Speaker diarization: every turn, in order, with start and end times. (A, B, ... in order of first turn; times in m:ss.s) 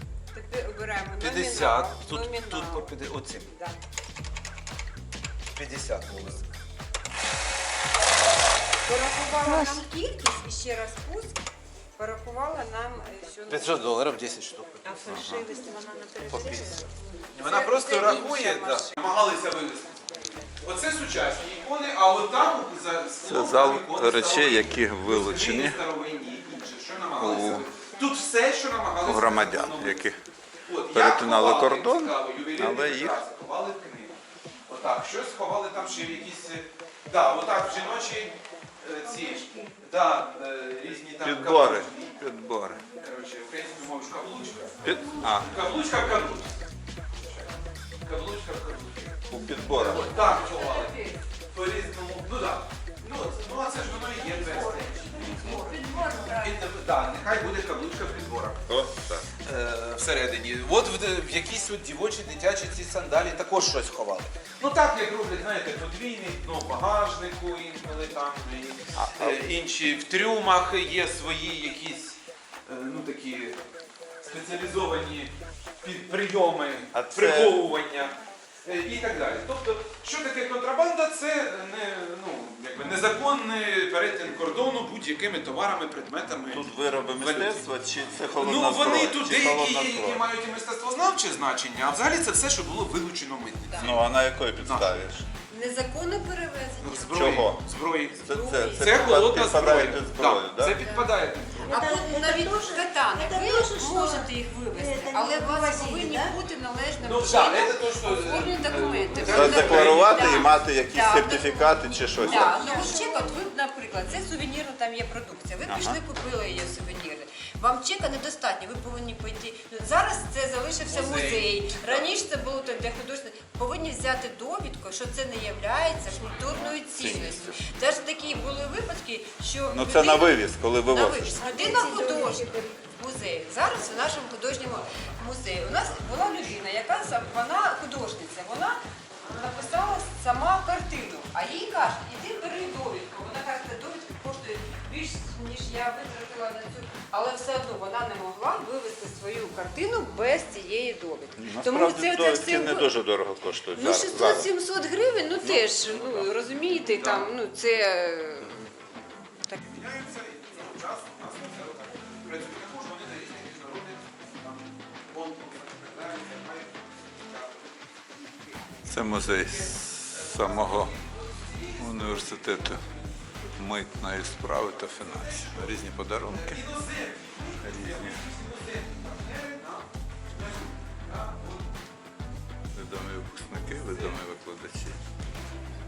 0:00.3-0:03.8 A
0:01.2-0:03.5 B
0:05.6-0:06.6 B
0:08.8-0:11.4 A
0:09.5-0:09.8 C
0:12.0-0:13.8 A
0:13.5-0:15.2 B
0:14.8-0:16.9 C
0:15.1-0:15.5 D
0:16.3-0:16.8 B
0:17.3-0:30.1 B
0:17.4-0:18.9 A
0:23.2-0:25.8 D
0:27.2-0:27.7 D
0:29.0-0:30.2 D
0:30.7-0:42.2 B
0:30.9-0:33.2 D
0:41.2-0:42.8 D
0:42.9-0:46.6 B
0:44.8-0:45.6 D
0:47.2-0:58.8 B
0:49.3-0:50.1 D
0:49.9-0:51.2 A
0:54.4-0:56.6 A
0:55.6-0:56.2 C
0:58.7-0:59.3 D
0:59.3-1:13.6 B
1:09.0-1:09.4 D
1:14.2-1:35.1 B
1:16.9-1:17.6 D
1:26.5-1:30.2 D
1:33.7-1:33.9 A
1:33.8-1:35.2 D
1:35.5-1:37.4 A
1:36.8-1:38.2 B
1:37.1-1:37.6 D
1:38.2-1:39.3 A
1:38.3-1:40.8 D
1:38.8-1:41.8 B
1:41.6-1:46.3 C
1:41.7-2:32.9 A
1:47.0-1:50.5 B
1:49.2-1:49.6 C
1:49.3-1:52.6 D
1:52.2-1:52.5 B
1:52.4-1:53.4 C
1:55.7-1:56.0 D
2:00.8-2:02.1 B
2:06.5-2:07.6 D
2:09.7-2:11.3 D
2:11.4-2:12.8 C
2:31.4-2:34.5 D
2:33.8-2:38.7 A
2:35.4-2:36.3 D
2:36.7-2:37.3 B
2:39.6-2:53.1 B
2:48.9-2:50.9 D
2:51.8-2:52.8 D
2:53.6-2:56.6 D
2:54.5-3:01.7 B
2:57.6-2:58.2 D
3:02.7-3:05.0 D
3:03.6-3:04.2 B